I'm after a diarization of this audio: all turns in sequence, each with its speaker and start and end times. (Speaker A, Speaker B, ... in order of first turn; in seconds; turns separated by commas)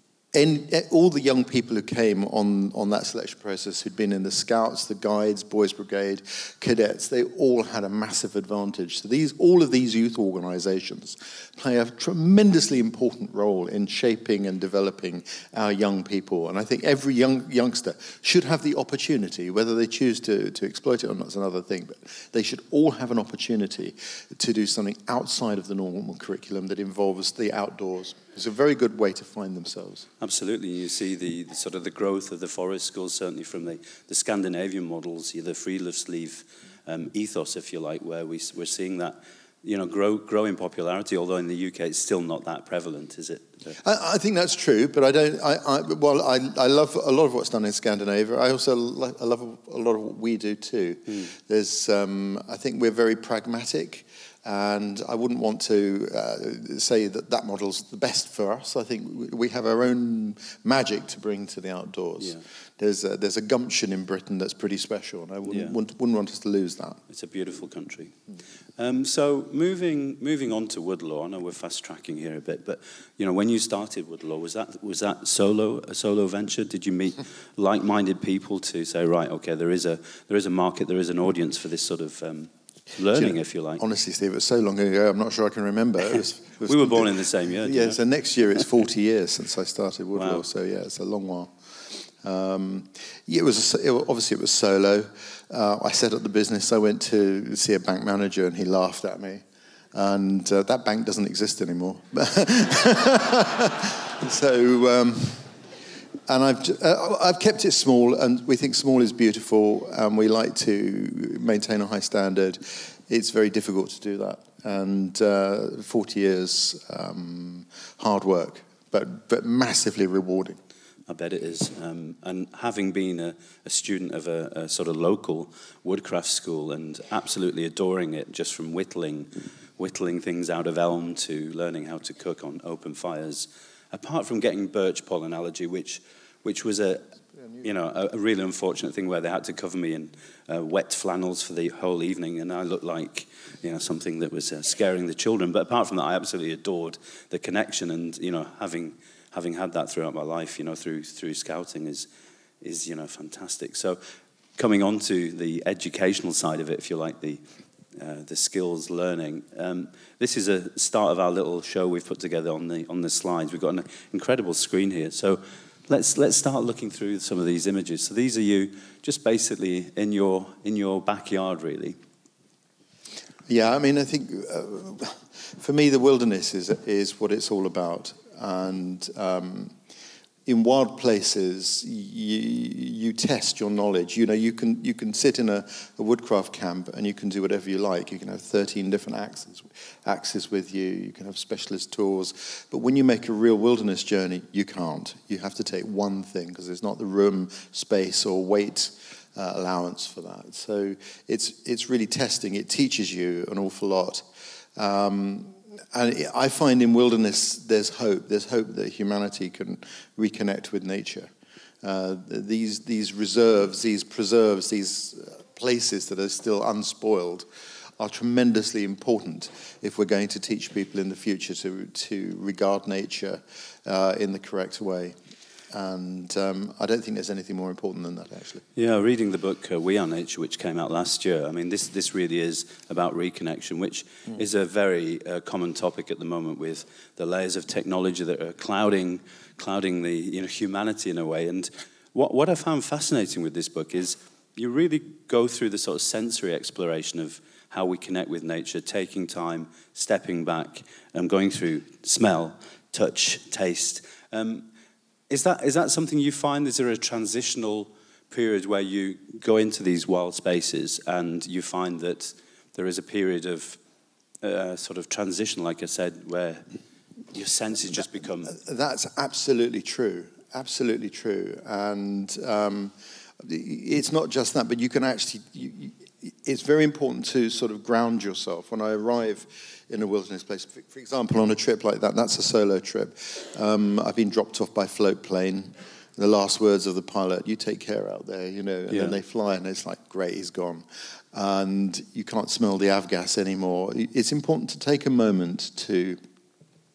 Speaker A: 0.3-30.1, Speaker B: 30.2-43.8, Speaker A: 43.8-67.0, Speaker B: 65.5-65.8, Speaker B: 67.1-68.1, Speaker B: 68.8-83.8, Speaker A: 83.1-99.4, Speaker B: 86.6-88.0, Speaker B: 90.1-90.4, Speaker A: 99.9-105.5, Speaker A: 106.3-120.6, Speaker B: 121.1-137.1, Speaker A: 137.3-137.7, Speaker B: 137.6-152.1, Speaker B: 152.6-154.0, Speaker B: 154.6-157.4, Speaker B: 158.0-172.0, Speaker A: 173.5-179.7, Speaker A: 180.4-204.2, Speaker A: 204.8-211.3, Speaker A: 211.8-217.4, Speaker A: 218.0-225.2, Speaker A: 225.7-228.6, Speaker B: 228.7-254.7, Speaker B: 255.3-263.8, Speaker B: 264.4-266.6, Speaker B: 267.3-268.6, Speaker A: 268.4-296.2, Speaker B: 288.9-289.2